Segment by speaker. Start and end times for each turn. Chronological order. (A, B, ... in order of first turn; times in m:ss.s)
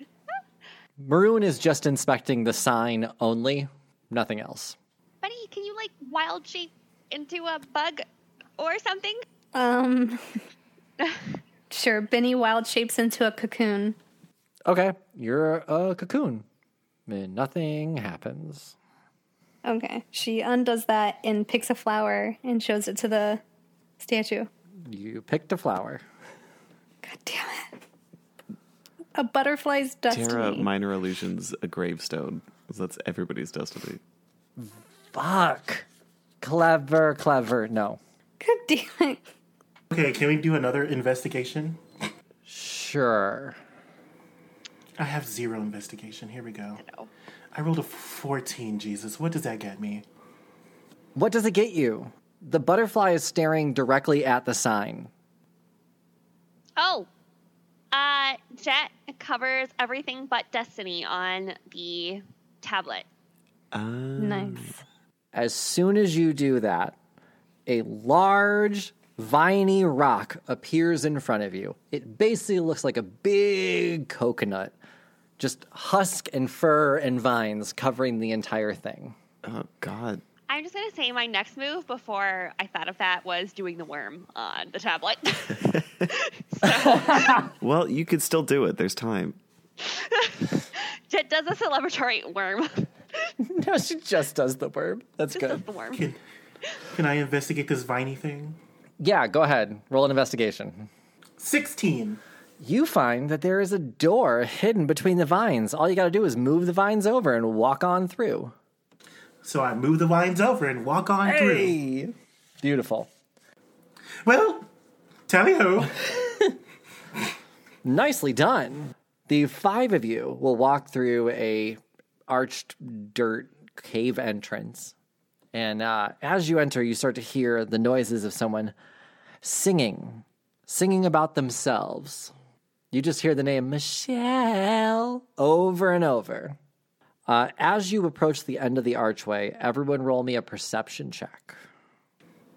0:01.0-0:04.8 A
0:05.2-0:08.0 B
0:08.6-0:09.2 B
0:09.5-0:10.4 C
0:11.7-0:14.0 C
0:14.7-0:16.4 A
0:17.1-0:18.7 A
0:19.6-0:23.4 C
0:24.0-0:24.5 C
0:24.8-0:26.0 A
0:27.0-0:27.8 C
0:29.1-0:30.7 C
0:30.1-0:34.0 D
0:34.6-0:35.9 A
0:36.4-0:38.0 A
0:38.4-0:39.2 C
0:39.9-0:41.8 E
0:42.4-0:43.6 A
0:45.0-0:46.8 E
0:46.8-0:47.1 B
0:47.5-0:50.0 E
0:51.2-0:55.1 A
0:56.8-0:57.1 B
0:57.9-1:03.1 B
1:03.7-1:04.7 D
1:04.2-1:04.8 C
1:05.3-1:07.0 A
1:07.7-1:14.7 A
1:15.4-1:19.2 A
1:19.4-1:20.2 D
1:20.5-1:27.5 B
1:26.6-1:27.4 A
1:27.6-1:29.4 D
1:29.8-1:32.9 B
1:33.4-1:35.6 A
1:35.3-1:36.0 B
1:35.9-1:36.2 E
1:36.9-1:38.6 E
1:39.0-1:40.9 A
1:41.4-1:42.2 E
1:42.6-1:48.5 A
1:49.4-1:51.8 E
1:51.2-1:53.1 A
1:54.2-1:54.7 E
1:55.3-1:56.1 E
1:57.8-2:04.9 A
2:05.5-2:08.7 A
2:09.4-2:12.3 A
2:12.9-2:16.6 A
2:17.3-2:21.6 A